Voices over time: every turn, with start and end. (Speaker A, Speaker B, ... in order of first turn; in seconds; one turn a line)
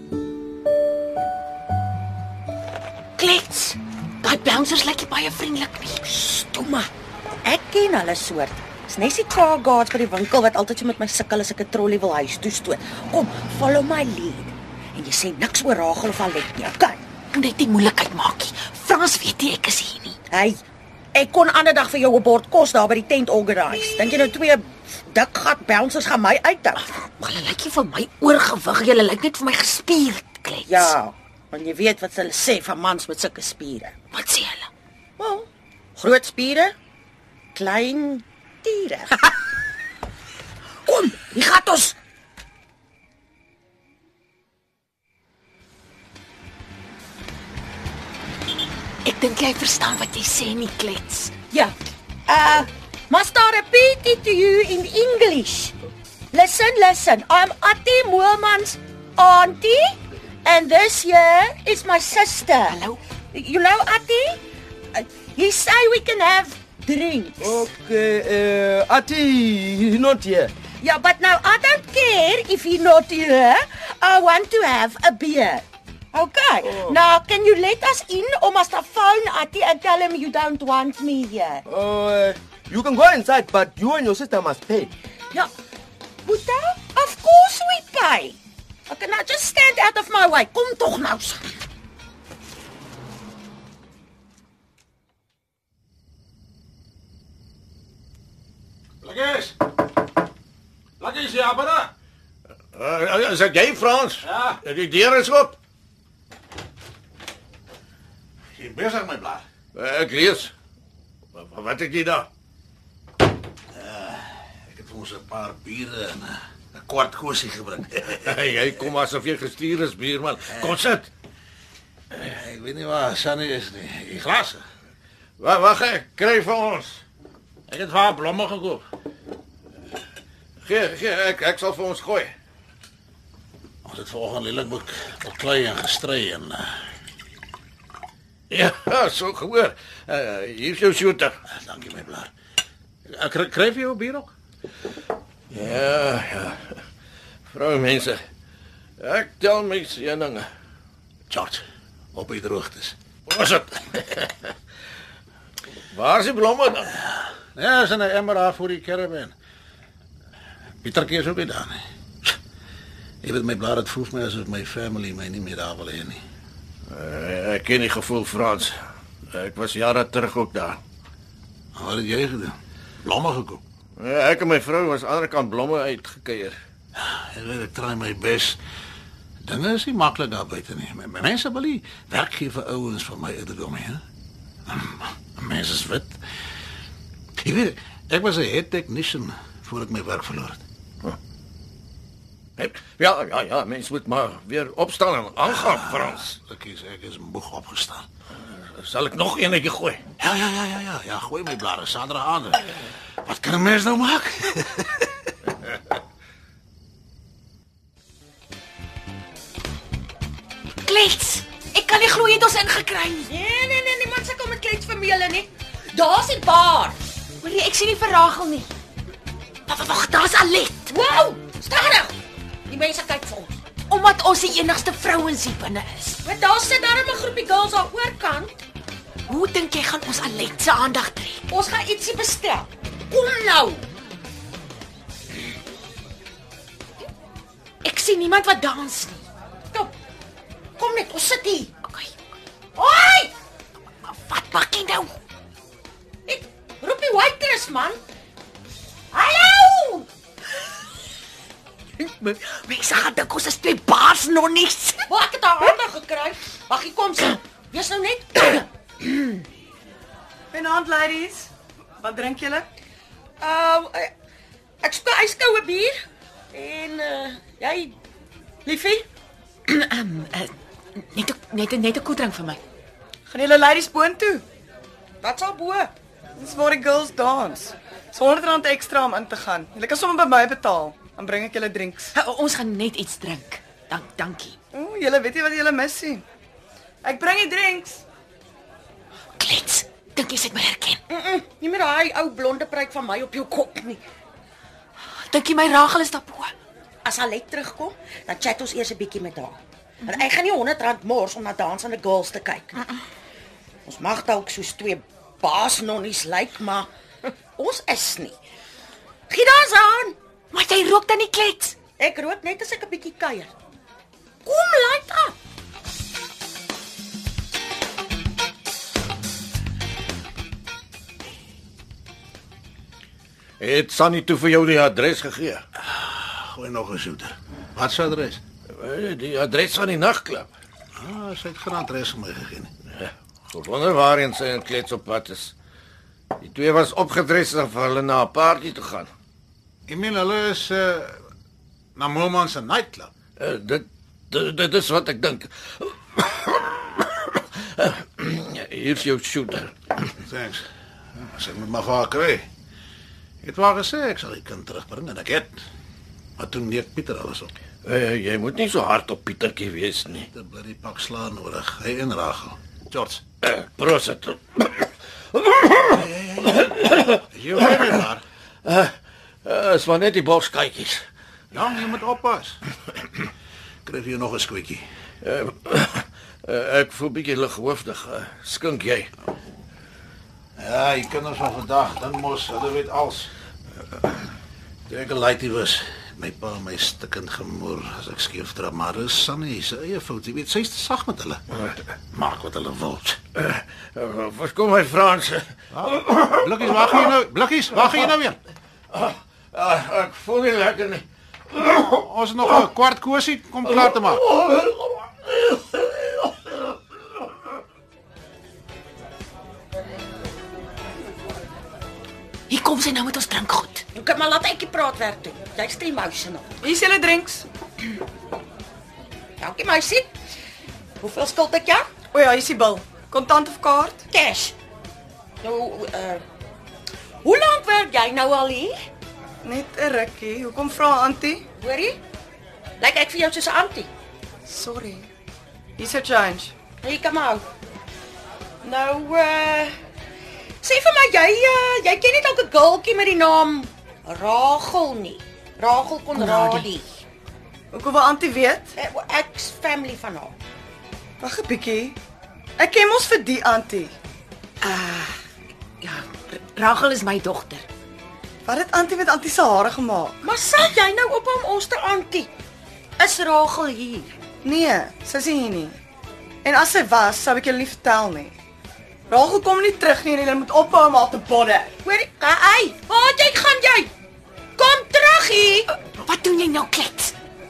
Speaker A: 3.2-6.2
Speaker B: 6.2-6.9
Speaker B: 7.4-17.0
Speaker A: 17.3-20.2
Speaker B: 20.3-20.6
Speaker B: 21.1-26.9
Speaker A: 26.8-30.9
Speaker B: 30.6-34.0
Speaker A: 34.1-34.7
Speaker B: 35.2-36.7
Speaker B: 37.5-39.3
Speaker B: 40.9-42.0
Speaker A: 49.0-51.3
Speaker B: 51.5-51.7
Speaker B: 52.3-55.7
Speaker B: 56.3-62.8
Speaker A: 62.7-63.0
Speaker B: 63.3-64.4
Speaker B: 64.9-67.7
Speaker C: 67.4-70.5
Speaker B: 70.8-81.6
Speaker C: 76.6-77.0
Speaker C: 81.7-84.9
Speaker B: 86.2-88.4
Speaker B: 88.9-91.5
Speaker D: 99.0-99.6
Speaker D: 101.0-101.9
Speaker E: 102.7-105.6
Speaker D: 104.2-104.6
Speaker D: 108.5-109.4
Speaker E: 109.7-110.5
Speaker E: 111.3-112.3
Speaker D: 113.7-118.2
Speaker E: 118.1-121.1
Speaker D: 122.1-124.6
Speaker E: 125.4-127.0
Speaker D: 127.7-128.8
Speaker E: 130.6-132.3
Speaker D: 133.8-136.7
Speaker E: 138.5-141.3
Speaker D: 141.5-142.3
Speaker D: 143.1-144.3
Speaker E: 145.5-146.8
Speaker E: 147.5-148.2
Speaker E: 149.0-150.5
Speaker D: 151.3-151.6
Speaker D: 152.1-152.9
Speaker E: 153.3-154.5
Speaker E: 155.9-157.0
Speaker D: 157.5-159.3
Speaker D: 160.8-162.3
Speaker D: 163.2-166.2
Speaker E: 166.9-168.7
Speaker E: 169.3-170.8
Speaker D: 171.7-173.6
Speaker E: 174.0-176.6
Speaker D: 176.9-178.6
Speaker D: 179.4-184.0
Speaker D: 184.7-186.2
Speaker D: 187.4-190.6
Speaker E: 192.6-196.3
Speaker D: 195.5-198.1
Speaker E: 198.5-200.0
Speaker D: 200.2-205.1
Speaker A: 210.8-213.3
Speaker B: 213.3-217.0
Speaker A: 217.4-218.7
Speaker A: 219.7-220.9
Speaker B: 220.9-223.6
Speaker A: 223.9-226.2
Speaker B: 226.2-228.6
Speaker A: 229.3-231.5
Speaker B: 231.5-233.8
Speaker A: 237.8-239.2
Speaker B: 240.8-241.7
Speaker A: 241.8-242.1
Speaker B: 242.8-243.3
Speaker A: 244.0-245.2
Speaker B: 246.2-248.0
Speaker B: 249.1-250.1
Speaker A: 252.0-255.0
Speaker B: 255.1-259.4
Speaker F: 260.5-261.5
Speaker F: 262.0-262.6
Speaker B: 263.4-264.1
Speaker B: 264.8-265.9
Speaker B: 266.5-268.0
Speaker B: 268.6-269.1
Speaker A: 269.7-272.6
Speaker F: 273.3-274.4
Speaker B: 275.2-275.9
Speaker F: 276.4-282.1
Speaker A: 282.1-284.6
Speaker F: 284.7-286.2
Speaker F: 287.0-288.0
Speaker A: 289.4-291.0
Speaker B: 291.1-294.0
Speaker A: 295.2-296.5
Speaker B: 297.0-302.9
Speaker B: 303.9-306.9
Speaker B: 307.6-308.4
Speaker B: 309.3-310.2
Speaker A: 310.5-311.8
Speaker B: 312.0-313.5
Speaker B: 314.4-315.3
Speaker E: 323.6-325.6
Speaker D: 325.9-328.4
Speaker E: 328.7-330.5
Speaker D: 330.9-332.7
Speaker E: 332.9-335.5
Speaker E: 336.4-339.1
Speaker D: 339.9-341.2
Speaker D: 341.9-343.1
Speaker E: 343.4-350.1
Speaker D: 350.2-352.4
Speaker D: 353.4-355.6
Speaker D: 356.4-357.5
Speaker E: 357.8-360.3
Speaker D: 360.2-363.2
Speaker E: 363.4-368.0
Speaker D: 365.9-366.7
Speaker D: 367.2-368.2
Speaker E: 368.6-368.9
Speaker E: 369.4-371.0
Speaker D: 371.5-372.6
Speaker D: 373.9-374.8
Speaker E: 375.2-379.1
Speaker D: 380.6-383.3
Speaker D: 384.9-391.4
Speaker D: 392.1-393.2
Speaker E: 393.3-397.1
Speaker D: 395.7-398.4
Speaker E: 398.9-401.9
Speaker D: 401.8-404.2
Speaker E: 403.7-406.6
Speaker A: 412.5-413.8
Speaker B: 413.9-416.5
Speaker F: 416.6-417.4
Speaker B: 419.4-420.1
Speaker B: 421.0-421.9
Speaker F: 422.1-424.0
Speaker B: 424.1-424.5
Speaker B: 425.4-426.2
Speaker B: 427.2-428.8
Speaker F: 429.4-431.4
Speaker B: 431.6-432.0
Speaker B: 432.8-433.9
Speaker F: 434.5-435.1
Speaker F: 435.8-436.5
Speaker B: 436.8-437.4
Speaker B: 438.6-439.7
Speaker B: 440.6-446.9
Speaker A: 446.1-446.7
Speaker F: 447.7-448.7
Speaker B: 448.7-450.4
Speaker F: 451.2-451.9
Speaker F: 452.6-453.9
Speaker A: 454.6-455.1
Speaker A: 455.8-457.6
Speaker F: 458.5-460.1
Speaker B: 460.2-462.3
Speaker B: 463.0-464.1
Speaker F: 464.4-465.7
Speaker F: 466.5-468.3
Speaker F: 469.1-471.7
Speaker B: 471.8-473.9
Speaker B: 474.6-475.7
Speaker A: 475.9-477.1